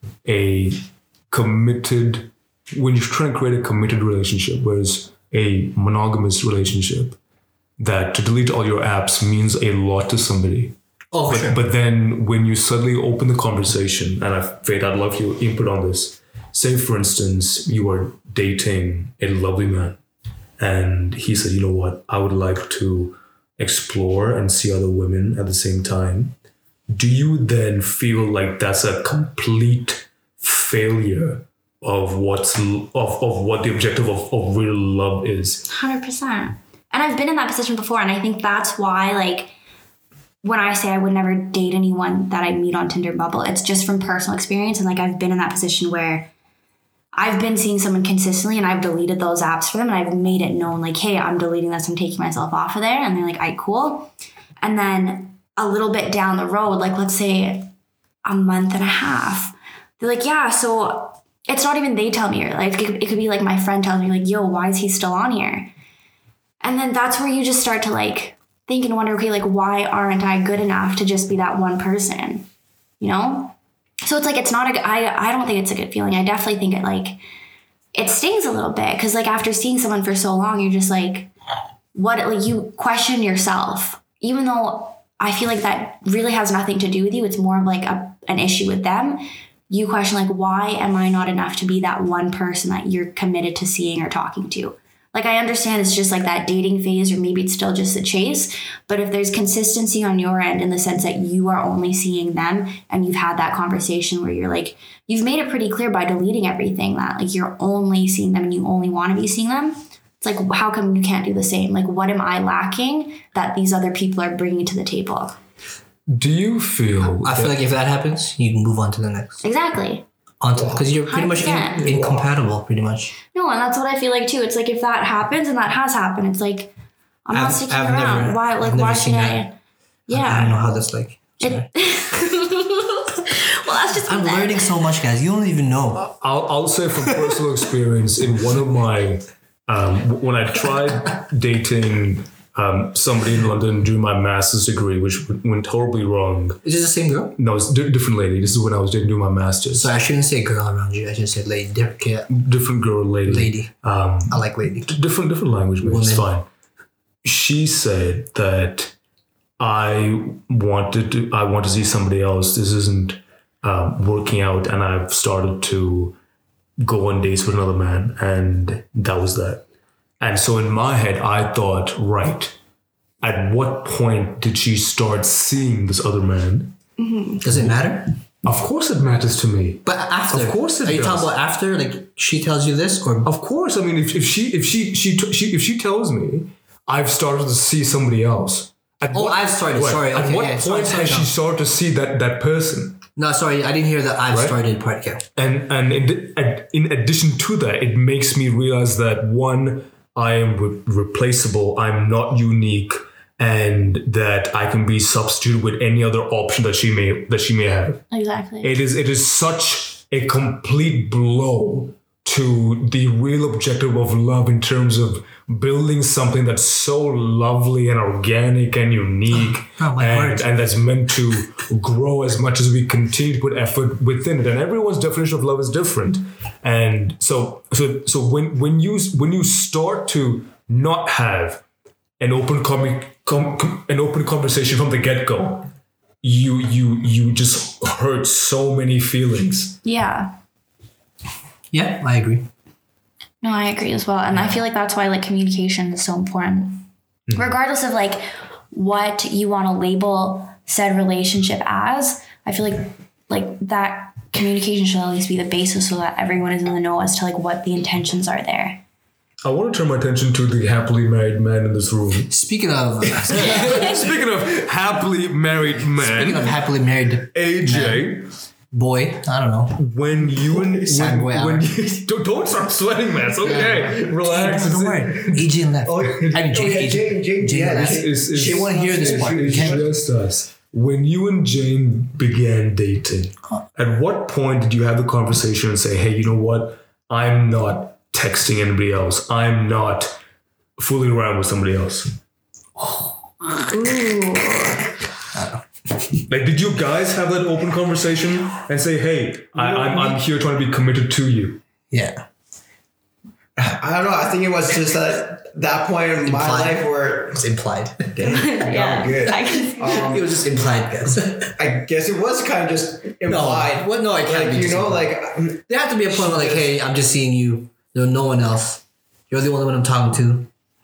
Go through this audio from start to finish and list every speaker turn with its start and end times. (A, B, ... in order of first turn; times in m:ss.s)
0:00.2-0:07.2 A
0:07.8-0:20.0 A
0:11.1-0:11.6 B
0:20.6-0:26.3 A
0:26.9-0:35.7 A
0:35.7-0:39.5 C
0:40.4-0:46.3 C
0:47.1-0:57.7 C
0:58.2-1:05.7 C
1:06.6-1:12.5 C
1:13.0-1:17.2 C
1:17.9-1:21.3 C
1:21.9-1:55.4 C
1:56.1-1:57.6 A
1:57.0-1:59.4 B
1:59.4-2:00.0 C
2:00.4-2:03.1 B
2:00.6-2:00.8 D
2:01.0-2:01.9 C
2:01.8-2:02.3 D
2:03.3-2:06.7 C
2:07.2-2:09.6 C
2:07.3-2:09.4 B
2:10.1-2:10.7 C
2:10.1-2:11.7 B
2:11.4-2:14.7 C
2:14.0-2:16.1 B
2:16.0-2:26.6 A
2:17.0-2:17.4 B
2:26.6-2:27.3 B
2:27.3-2:29.9 A
2:29.7-2:32.3 B
2:32.3-2:36.4 A
2:33.2-2:33.7 B
2:34.3-2:35.0 B
2:35.8-2:36.3 B
2:37.2-2:38.9 A
2:39.6-2:46.2 A
2:46.8-2:49.6 A
2:50.2-2:52.5 A
2:53.2-2:56.8 A
2:57.0-2:57.4 C
2:57.4-2:58.1 B
2:57.5-2:57.8 A
2:58.4-3:01.3 A
2:59.8-3:03.3 B
3:03.2-3:13.0 A
3:09.1-3:11.3 B
3:13.2-3:15.2 B
3:14.3-3:14.6 A
3:15.4-3:28.0 A
3:28.1-3:28.7 C
3:28.6-3:51.6 A
3:39.3-3:40.5 B
3:52.2-3:55.7 A
3:56.2-3:59.8 A
3:59.8-4:00.3 C
4:01.7-4:02.5 B
4:03.4-4:18.8 C
4:07.3-4:07.5 A
4:19.4-4:22.3 A
4:22.3-4:24.2 B
4:23.0-4:26.5 A
4:25.8-4:29.8 B
4:27.3-4:28.3 A
4:29.8-4:36.4 A
4:30.8-4:31.7 B
4:33.4-4:39.9 B
4:35.8-4:39.9 D
4:37.7-4:50.2 A
4:50.8-4:52.2 A
4:53.6-4:54.8 C
4:55.3-4:55.6 B
4:56.3-5:01.6 A
4:59.6-5:00.2 D
5:01.9-5:02.2 B
5:03.6-5:07.4 D
5:06.2-5:08.2 B
5:08.1-5:10.5 D
5:08.3-5:10.1 C
5:09.8-5:11.6 B
5:11.5-5:16.7 D
5:13.2-5:15.2 B
5:15.7-5:20.5 B